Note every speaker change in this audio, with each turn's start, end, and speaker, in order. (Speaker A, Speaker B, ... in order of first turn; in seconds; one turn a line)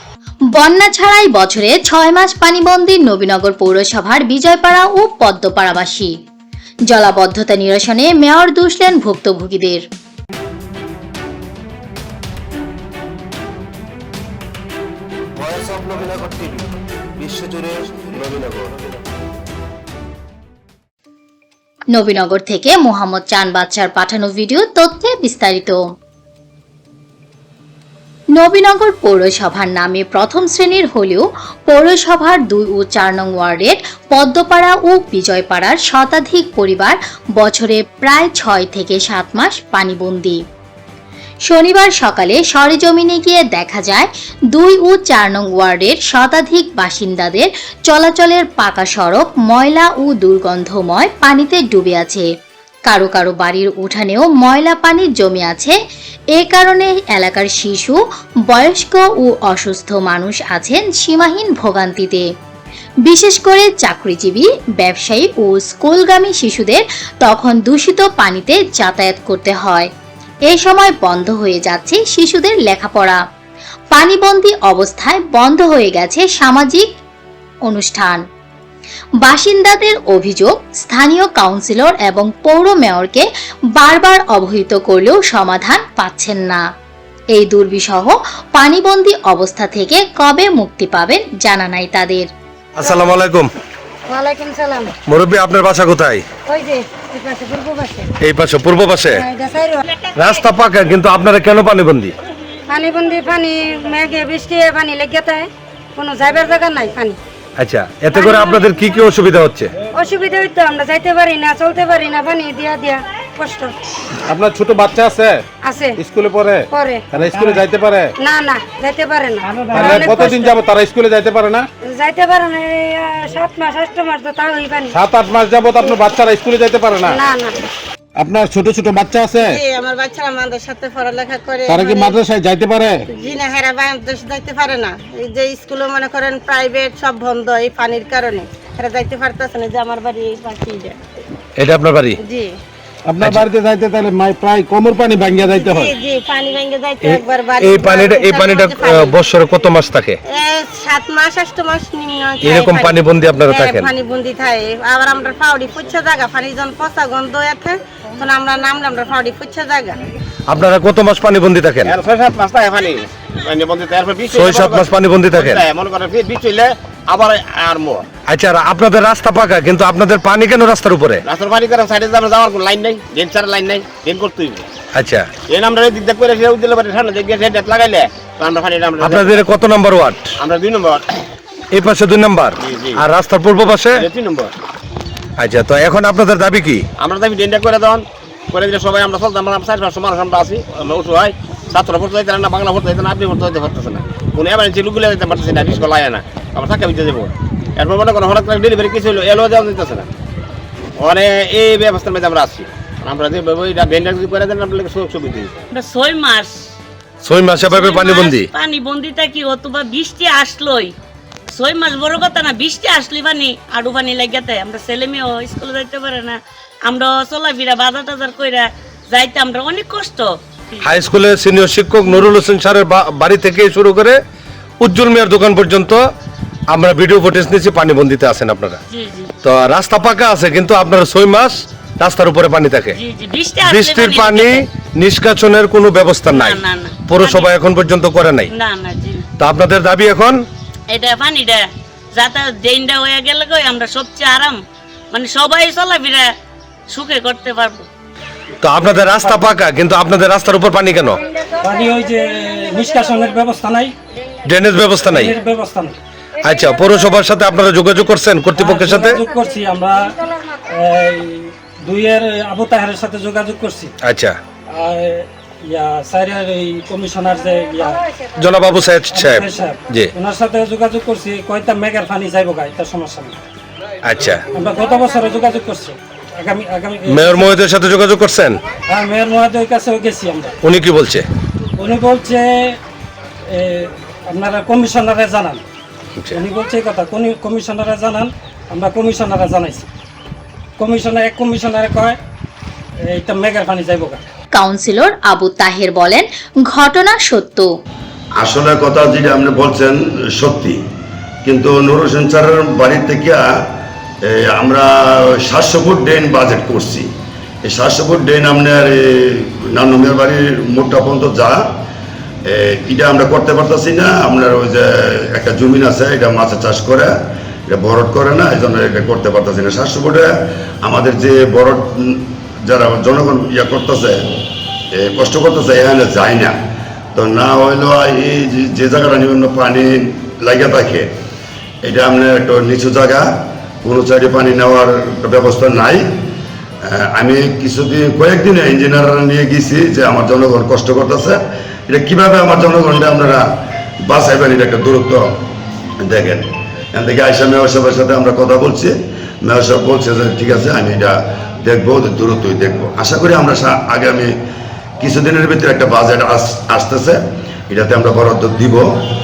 Speaker A: 0.5-6.1
Speaker A: 6.9-9.8
Speaker B: 15.4-18.7
Speaker A: 21.9-25.8
Speaker A: 28.4-40.4
Speaker A: 41.5-52.3
Speaker A: 52.9-55.8
Speaker A: 56.4-58.0
Speaker A: 58.5-62.2
Speaker A: 63.1-69.9
Speaker A: 70.5-73.2
Speaker A: 73.9-76.8
Speaker A: 77.7-78.2
Speaker A: 79.2-86.6
Speaker A: 87.3-92.3
Speaker B: 92.8-93.5
Speaker C: 94.1-94.9
Speaker B: 95.1-96.2
Speaker C: 96.5-98.1
Speaker B: 98.2-99.3
Speaker C: 99.2-99.9
Speaker B: 100.2-102.1
Speaker C: 102.7-107.2
Speaker B: 107.6-109.7
Speaker C: 108.1-108.6
Speaker C: 110.0-113.8
Speaker D: 114.3-115.4
Speaker C: 115.6-116.0
Speaker D: 116.0-118.1
Speaker C: 116.7-117.0
Speaker E: 117.2-117.6
Speaker C: 118.2-120.6
Speaker E: 119.5-119.8
Speaker D: 119.6-121.7
Speaker C: 121.9-125.0
Speaker D: 125.0-127.2
Speaker F: 125.8-126.1
Speaker C: 127.0-127.6
Speaker D: 128.2-129.6
Speaker F: 129.3-132.3
Speaker D: 131.7-133.0
Speaker F: 133.1-141.0
Speaker B: 141.6-142.2
Speaker F: 142.2-142.5
Speaker D: 143.1-145.9
Speaker B: 143.2-143.5
Speaker F: 145.2-149.1
Speaker B: 147.0-150.2
Speaker F: 150.3-152.9
Speaker B: 152.4-153.9
Speaker F: 153.5-160.0
Speaker B: 160.5-161.9
Speaker G: 161.8-168.1
Speaker B: 164.3-165.6
Speaker B: 168.3-171.2
Speaker G: 171.2-174.7
Speaker B: 174.9-175.3
Speaker G: 175.5-179.4
Speaker B: 179.0-180.3
Speaker G: 180.4-181.2
Speaker B: 181.7-184.0
Speaker G: 182.6-183.0
Speaker G: 183.9-184.5
Speaker B: 185.4-186.8
Speaker G: 187.0-200.1
Speaker G: 201.0-205.5
Speaker H: 205.7-206.6
Speaker B: 207.2-208.5
Speaker H: 207.6-210.9
Speaker H: 211.5-220.8
Speaker B: 220.8-224.2
Speaker B: 224.8-226.0
Speaker B: 226.7-228.8
Speaker H: 228.9-229.3
Speaker B: 229.4-233.0
Speaker H: 233.0-234.7
Speaker B: 233.6-238.5
Speaker H: 236.3-237.5
Speaker H: 238.5-239.2
Speaker B: 239.4-240.4
Speaker H: 240.9-244.6
Speaker H: 245.1-246.3
Speaker H: 246.9-247.8
Speaker B: 248.6-251.2
Speaker E: 248.9-249.6
Speaker E: 251.6-253.9
Speaker B: 254.4-255.4
Speaker E: 255.1-256.0
Speaker B: 256.4-259.2
Speaker E: 258.5-263.9
Speaker B: 264.0-264.4
Speaker E: 264.7-268.1
Speaker B: 268.4-270.1
Speaker E: 269.1-273.4
Speaker B: 274.1-274.4
Speaker E: 274.5-277.6
Speaker B: 277.1-278.6
Speaker E: 278.9-280.6
Speaker B: 280.6-281.2
Speaker E: 281.8-282.8
Speaker E: 283.6-285.6
Speaker E: 286.3-289.9
Speaker E: 290.8-292.2
Speaker E: 293.1-294.2
Speaker A: 294.6-297.7
Speaker I: 298.4-300.8
Speaker I: 301.4-303.4
Speaker I: 304.3-304.9
Speaker I: 305.4-307.1
Speaker I: 307.7-311.6
Speaker I: 312.5-317.1
Speaker I: 317.7-320.3
Speaker I: 320.8-324.2
Speaker I: 324.9-326.6
Speaker I: 327.1-331.1
Speaker I: 331.8-333.3
Speaker I: 333.8-336.0
Speaker I: 336.9-343.4
Speaker I: 344.1-345.2
Speaker I: 346.0-354.3
Speaker I: 355.0-357.2
Speaker I: 357.7-358.9